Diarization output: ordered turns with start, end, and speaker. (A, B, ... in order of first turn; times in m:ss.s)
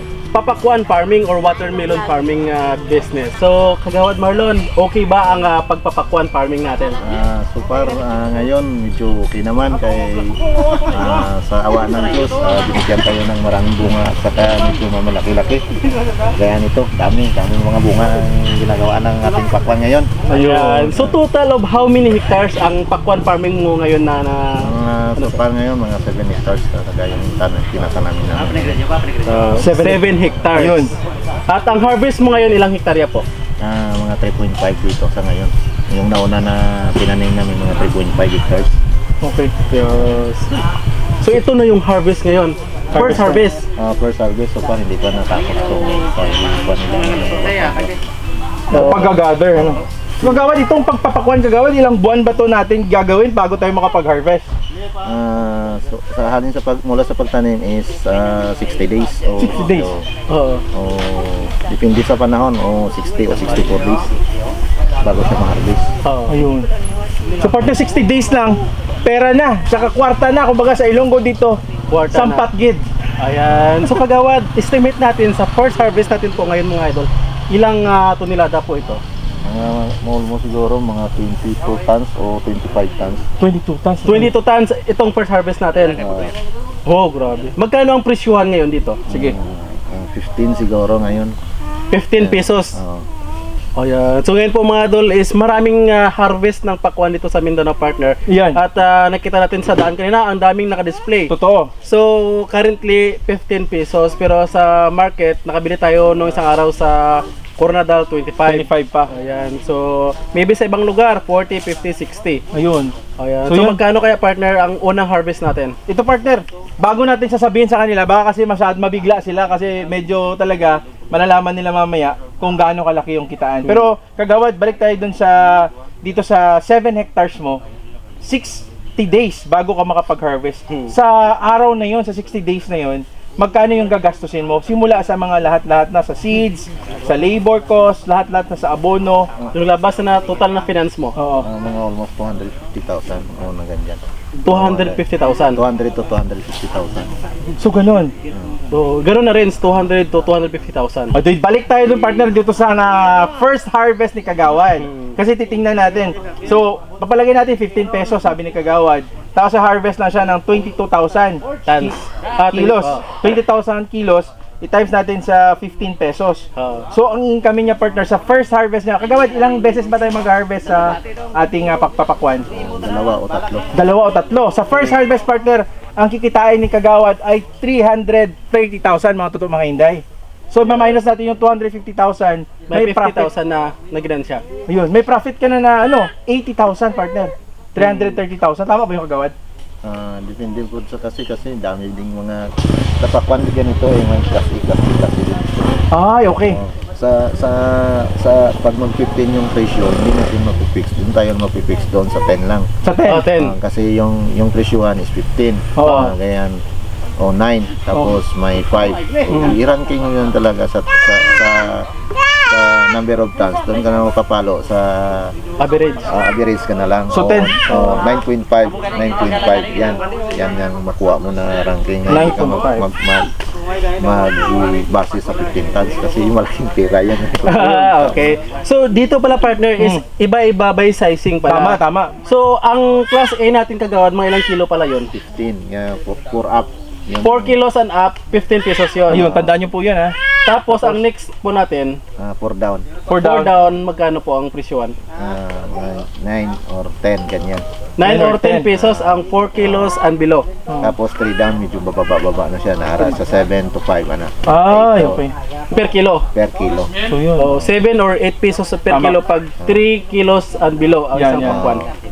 0:00.3-0:07.0 A
0:07.0-0:10.4 B
0:10.9-0:15.6 B
0:16.3-0:20.1 B
0:20.3-0:20.9 C
0:20.3-0:25.4 A
0:20.9-0:21.1 B
0:24.6-0:28.8 B
0:29.2-0:30.9 A
0:29.6-0:30.9 C
0:31.5-0:33.2 A
0:33.6-0:38.7 B
0:39.2-0:39.5 C
0:39.7-0:40.5 A
0:41.2-0:43.6 A
0:42.9-0:48.0 B
0:42.9-0:43.4 C
0:48.7-0:54.5 C
0:48.7-0:49.0 B
0:48.7-0:49.1 A
0:55.0-1:00.0 B
0:59.4-0:59.9 C
1:00.3-1:00.6 A
1:00.7-1:04.1 B
1:05.0-1:05.8 B
1:06.0-1:06.4 A
1:06.3-1:06.7 C
1:07.4-1:11.6 C
1:11.9-1:12.4 A
1:12.1-1:12.8 C
1:13.2-1:19.0 A
1:19.4-1:23.2 B
1:23.4-1:24.3 C
1:24.0-1:26.0 A
1:26.0-1:26.3 B
1:26.9-1:29.0 A
1:29.1-1:29.3 C
1:29.1-1:31.3 B
1:31.9-1:32.8 A
1:32.2-1:33.1 B
1:33.8-1:41.3 A
1:38.3-1:38.6 C
1:41.3-1:41.7 C
1:41.8-1:52.4 A
1:48.4-1:49.1 C
1:52.5-1:52.9 C
1:53.2-1:55.8 A
1:53.5-1:53.8 C
1:55.9-2:07.6 C
2:03.6-2:03.9 A
2:08.2-2:19.3 C
2:19.5-2:21.1 A
2:21.2-2:21.5 C
2:21.4-2:25.0 B
2:24.4-2:25.6 A
2:25.5-2:27.1 B
2:27.6-2:28.1 C
2:28.7-2:31.2 A
2:31.1-2:42.0 C
2:34.8-2:35.1 A
2:41.6-2:43.1 A
2:42.5-2:52.5 C
2:46.6-2:46.9 A
2:52.5-2:53.7 B
2:53.7-3:03.3 C
3:02.7-3:04.4 A
3:04.7-3:09.3 C
3:07.8-3:08.2 A
3:09.8-3:12.5 B
3:13.0-3:15.5 B
3:15.9-3:16.6 C
3:16.4-3:22.7 B
3:22.8-3:23.3 C
3:23.1-3:23.5 A
3:23.3-3:26.6 B
3:25.8-3:26.1 C
3:27.2-3:31.8 B
3:27.9-3:28.2 C
3:29.3-3:29.6 C
3:32.5-3:35.3 B
3:35.6-3:36.1 A
3:36.1-3:43.3 B
3:37.1-3:37.7 C
3:37.7-3:38.0 A
3:42.1-3:42.8 C
3:44.0-3:48.4 B
3:47.4-3:55.1 A
3:51.5-3:52.1 C
3:55.1-3:57.6 B
3:57.2-3:59.3 A
3:59.1-3:59.6 B
3:59.1-4:00.1 C
4:00.4-4:02.0 A
4:00.7-4:01.0 C
4:02.2-4:02.8 B
4:03.1-4:03.5 C
4:03.2-4:04.9 A
4:05.2-4:07.6 B
4:08.0-4:10.4 A
4:08.0-4:08.7 C
4:08.7-4:09.9 B
4:10.7-4:11.0 C
4:10.8-4:15.2 B
4:14.5-4:15.3 C
4:15.7-4:16.2 A
4:16.3-4:16.9 B
4:17.0-4:17.5 C
4:17.4-4:21.8 A
4:18.9-4:19.2 C
4:19.6-4:19.8 B
4:21.1-4:21.6 C
4:21.4-4:21.9 B